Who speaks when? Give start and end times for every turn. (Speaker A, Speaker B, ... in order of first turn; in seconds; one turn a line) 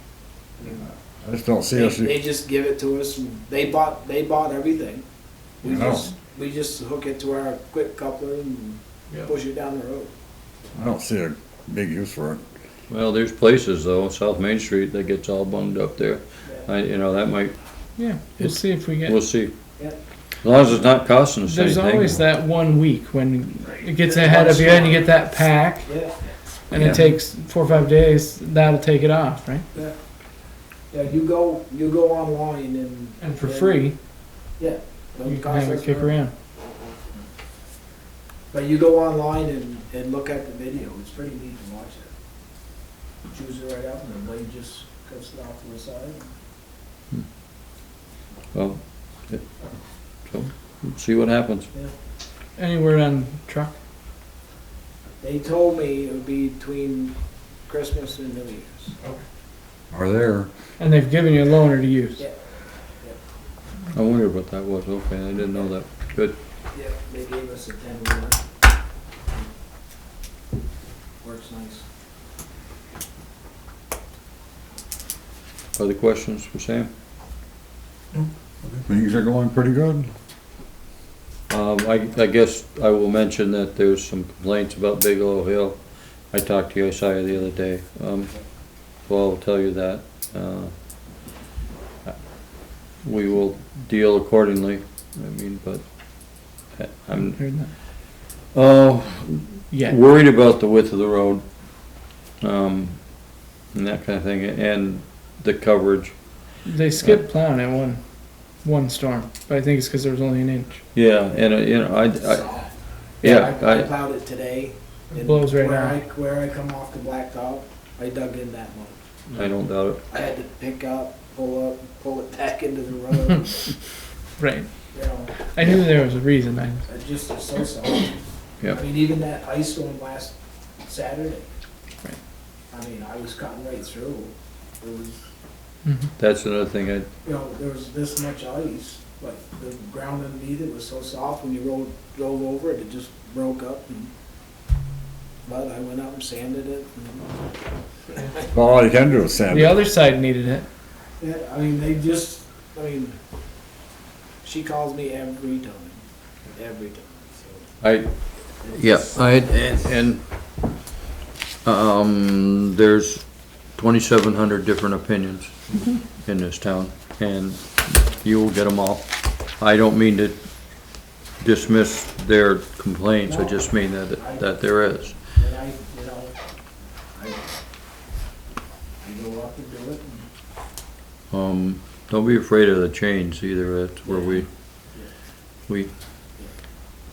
Speaker A: 0.6-0.8
Speaker B: 1.2-2.1
Speaker A: 1.7-5.0
Speaker A: 5.6-10.1
Speaker B: 5.6-6.0
Speaker B: 10.7-12.4
Speaker C: 12.9-17.6
Speaker D: 18.0-19.2
Speaker C: 18.4-19.5
Speaker C: 20.4-22.2
Speaker D: 21.4-26.1
Speaker A: 24.1-25.0
Speaker A: 25.7-26.3
Speaker D: 26.7-29.6
Speaker B: 26.7-27.0
Speaker A: 30.9-33.9
Speaker D: 33.2-33.9
Speaker A: 34.6-36.1
Speaker D: 35.2-36.3
Speaker A: 38.5-42.1
Speaker A: 43.3-46.2
Speaker C: 48.5-49.4
Speaker C: 50.1-51.7
Speaker D: 52.6-53.7
Speaker A: 55.2-58.9
Speaker B: 59.9-60.5
Speaker D: 60.8-62.2
Speaker C: 63.9-66.3
Speaker A: 66.7-68.4
Speaker A: 71.2-71.8
Speaker C: 75.8-76.9
Speaker B: 78.8-80.1
Speaker C: 81.5-91.3
Speaker C: 92.9-107.2
Speaker D: 97.1-97.7
Speaker D: 99.7-100.0
Speaker D: 106.6-110.8
Speaker C: 110.9-112.6
Speaker A: 112.1-112.7
Speaker C: 113.2-113.9
Speaker D: 113.2-113.5
Speaker A: 113.2-119.0
Speaker D: 115.1-116.0
Speaker C: 119.3-120.0
Speaker A: 120.1-123.7
Speaker D: 124.4-124.7
Speaker A: 124.9-125.3
Speaker D: 125.4-126.8
Speaker A: 126.9-128.2
Speaker A: 128.7-131.4
Speaker A: 132.7-135.3
Speaker D: 135.8-136.1
Speaker C: 136.2-137.1
Speaker A: 137.2-144.1
Speaker A: 145.4-147.3
Speaker B: 148.4-149.8
Speaker D: 149.5-150.6
Speaker A: 151.2-153.2
Speaker A: 154.4-156.0
Speaker A: 156.5-157.6
Speaker C: 157.8-160.6
Speaker A: 158.6-159.3
Speaker C: 161.6-175.1
Speaker A: 173.2-176.3
Speaker A: 177.1-177.5
Speaker A: 179.0-180.2
Speaker C: 181.3-184.5
Speaker A: 184.0-185.1